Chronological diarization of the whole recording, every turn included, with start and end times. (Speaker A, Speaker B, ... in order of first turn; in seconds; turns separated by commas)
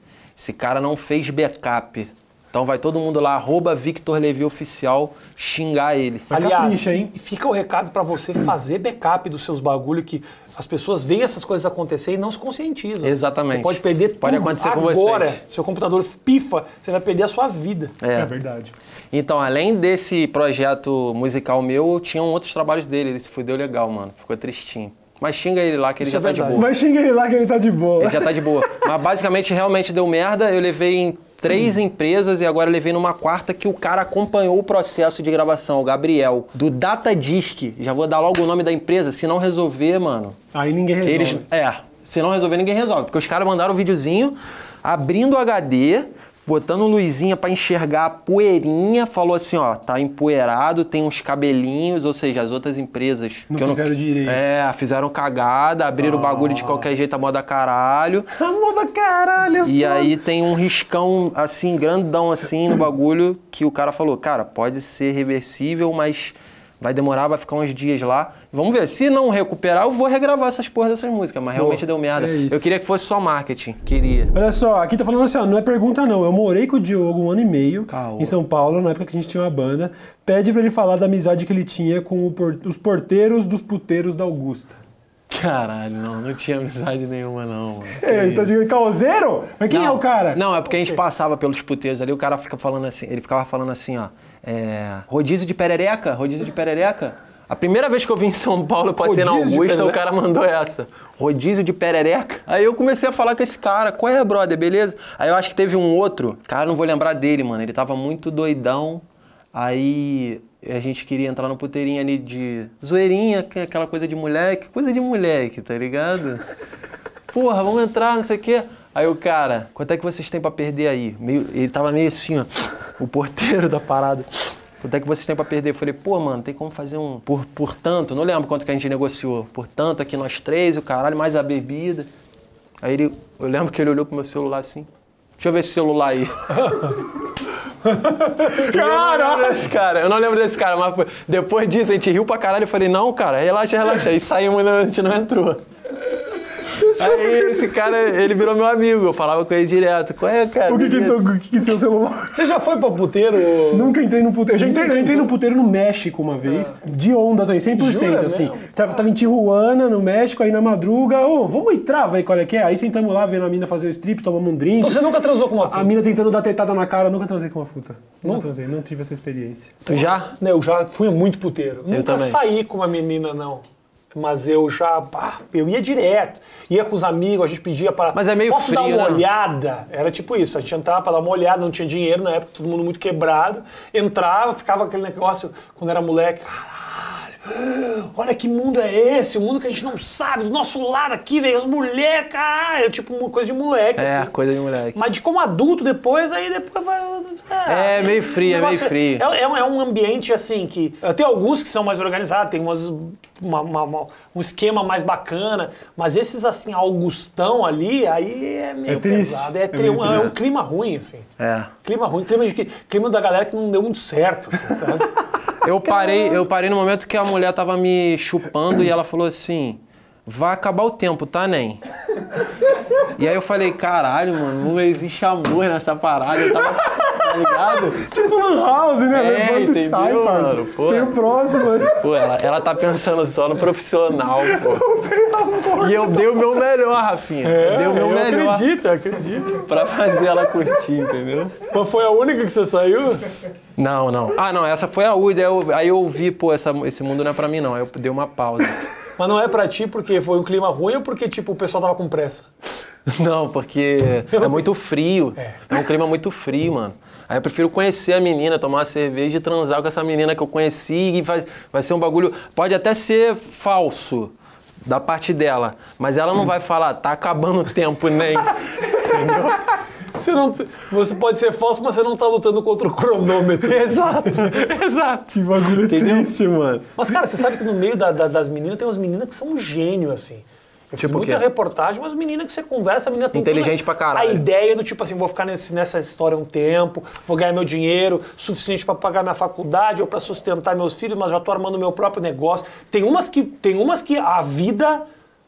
Speaker A: 0.4-6.3, Speaker B: 6.3-7.1, Speaker C: 6.3-17.9, Speaker A: 13.0-15.4, Speaker A: 18.0-18.3, Speaker B: 18.1-18.7, Speaker A: 19.1-26.7, Speaker C: 26.0-26.7, Speaker B: 26.5-28.8, Speaker A: 28.0-40.3, Speaker B: 40.5-41.4, Speaker A: 41.0-58.3, Speaker B: 53.5-54.4, Speaker B: 56.0-56.9, Speaker B: 58.3-60.1, Speaker A: 59.6-74.3, Speaker B: 71.5-72.7, Speaker B: 74.3-84.8, Speaker A: 77.9-78.3, Speaker A: 85.3-88.5, Speaker B: 88.0-90.4, Speaker A: 89.7-116.4, Speaker C: 90.7-91.0, Speaker C: 99.0-100.0, Speaker A: 117.3-124.3, Speaker A: 124.8-132.1, Speaker A: 132.8-134.9, Speaker A: 135.4-136.9, Speaker B: 137.9-139.6, Speaker A: 138.4-145.6, Speaker B: 146.8-148.1, Speaker A: 146.8-151.2, Speaker B: 150.7-152.4, Speaker C: 152.3-153.9, Speaker B: 153.7-165.0, Speaker C: 154.5-155.3, Speaker C: 157.7-158.8, Speaker C: 164.8-165.9, Speaker B: 165.6-169.8, Speaker A: 169.8-170.3, Speaker C: 169.9-194.3, Speaker A: 171.9-172.4, Speaker A: 178.1-179.2, Speaker A: 194.0-195.0, Speaker C: 194.9-211.2, Speaker A: 197.7-199.2, Speaker B: 208.8-210.3, Speaker A: 211.4-211.7, Speaker C: 211.8-215.1, Speaker A: 215.6-221.8, Speaker A: 223.1-228.1, Speaker B: 227.3-232.0, Speaker A: 229.1-231.1, Speaker A: 231.6-234.8, Speaker B: 234.4-236.6, Speaker A: 235.8-238.7, Speaker C: 237.4-239.6, Speaker A: 239.5-241.6, Speaker C: 241.7-243.2, Speaker A: 243.8-248.8, Speaker C: 249.2-252.5, Speaker A: 253.1-264.3, Speaker C: 254.3-254.7, Speaker C: 255.4-255.7, Speaker A: 264.8-269.6, Speaker C: 270.1-274.3, Speaker A: 273.6-276.3, Speaker B: 275.3-277.3, Speaker C: 277.0-295.0, Speaker A: 280.9-281.4, Speaker A: 283.3-284.4